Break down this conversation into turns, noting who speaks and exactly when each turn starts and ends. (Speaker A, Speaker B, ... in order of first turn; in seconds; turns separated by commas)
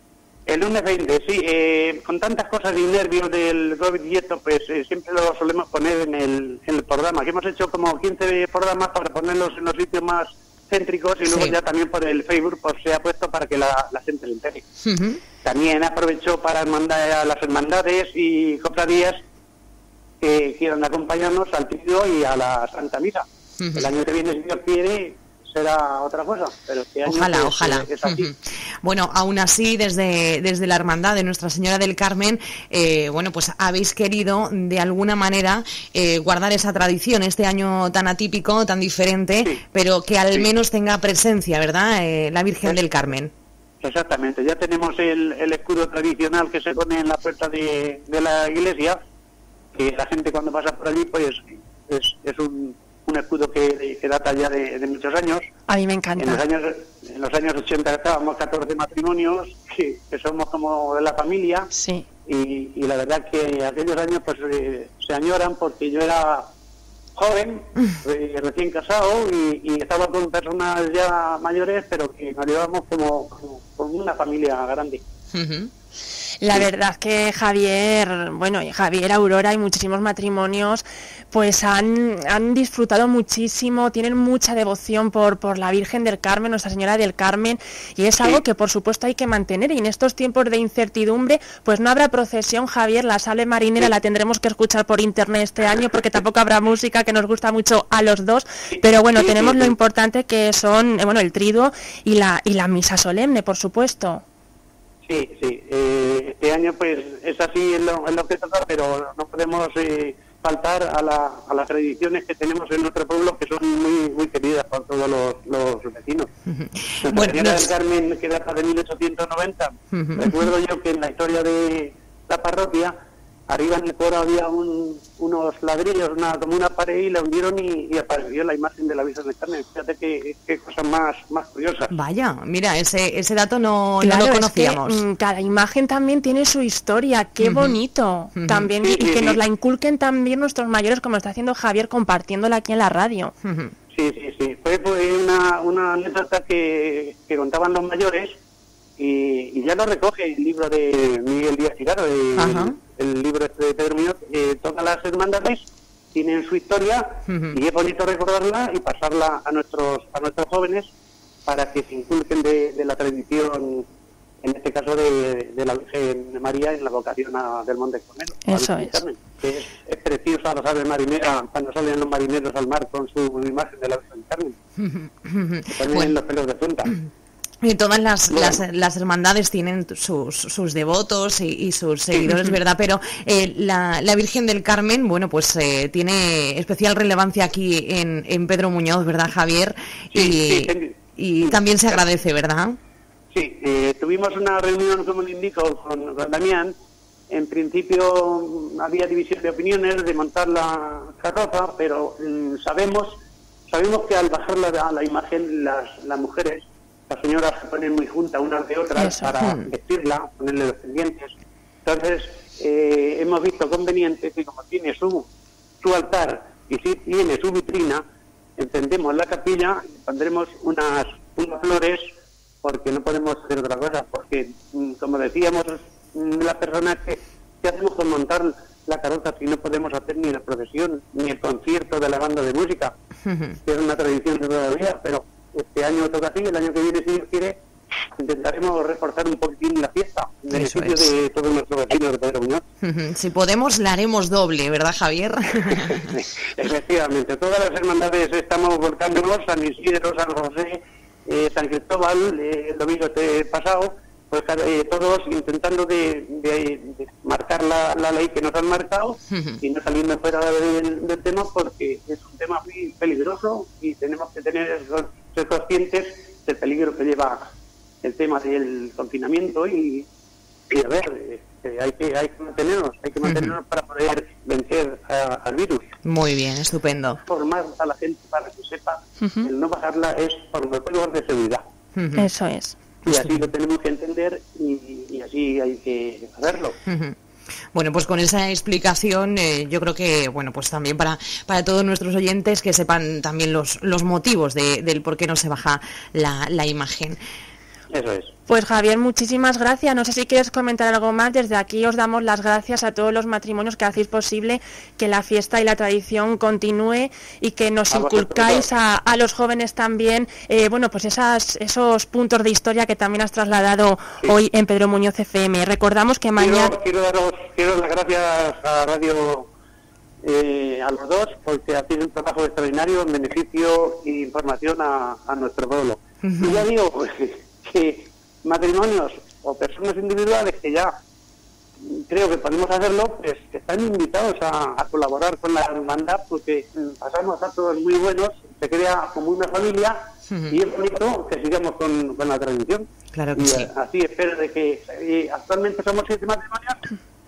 Speaker A: 0.5-14.6, Speaker B: 11.2-11.6, Speaker B: 14.8-15.2, Speaker A: 15.4-19.2, Speaker A: 20.2-28.3, Speaker B: 23.6-23.9, Speaker B: 27.1-43.3, Speaker A: 43.8-49.0, Speaker A: 49.7-55.4, Speaker C: 55.7-56.4, Speaker A: 56.2-61.7, Speaker C: 61.7-62.0, Speaker A: 62.2-66.5, Speaker A: 67.1-75.0, Speaker B: 75.3-75.7, Speaker C: 76.4-104.2, Speaker A: 88.1-88.4, Speaker A: 99.1-99.7, Speaker A: 105.0-116.3, Speaker B: 116.5-117.7, Speaker A: 117.0-122.9, Speaker B: 119.9-120.3, Speaker A: 123.5-131.9, Speaker B: 131.9-135.0, Speaker C: 134.0-143.3, Speaker B: 137.4-137.8, Speaker B: 138.3-138.7, Speaker A: 138.8-139.4, Speaker B: 143.4-143.7, Speaker A: 143.9-148.4, Speaker A: 149.0-160.8, Speaker B: 152.3-152.8, Speaker B: 157.3-157.5, Speaker A: 161.5-163.8, Speaker A: 164.4-174.6, Speaker C: 168.4-169.0, Speaker B: 174.8-176.1, Speaker A: 175.8-176.9, Speaker B: 177.6-192.8, Speaker A: 178.3-178.6, Speaker A: 190.1-191.6, Speaker A: 193.3-196.7, Speaker A: 197.3-211.3, Speaker C: 208.9-209.3, Speaker B: 209.4-209.7, Speaker A: 211.8-215.3, Speaker A: 215.8-218.0, Speaker A: 218.6-222.0, Speaker A: 222.6-232.9, Speaker B: 233.2-233.6, Speaker A: 233.6-237.6, Speaker A: 238.2-242.6, Speaker B: 240.5-241.1, Speaker B: 242.8-246.1, Speaker A: 245.7-267.4, Speaker B: 259.3-259.6, Speaker A: 268.0-270.1, Speaker A: 270.7-275.9, Speaker B: 273.2-273.5, Speaker B: 276.0-277.2, Speaker A: 277.2-281.6, Speaker C: 279.2-279.5, Speaker B: 281.9-282.3, Speaker C: 282.1-282.8, Speaker A: 283.1-286.8, Speaker B: 286.9-287.2, Speaker B: 287.7-297.2, Speaker A: 297.9-298.3, Speaker C: 298.5-316.7, Speaker A: 307.9-308.7, Speaker A: 316.4-319.5, Speaker A: 320.2-330.9, Speaker B: 326.2-326.6, Speaker A: 331.8-340.0, Speaker B: 340.3-340.5, Speaker A: 340.5-346.9, Speaker B: 343.1-343.7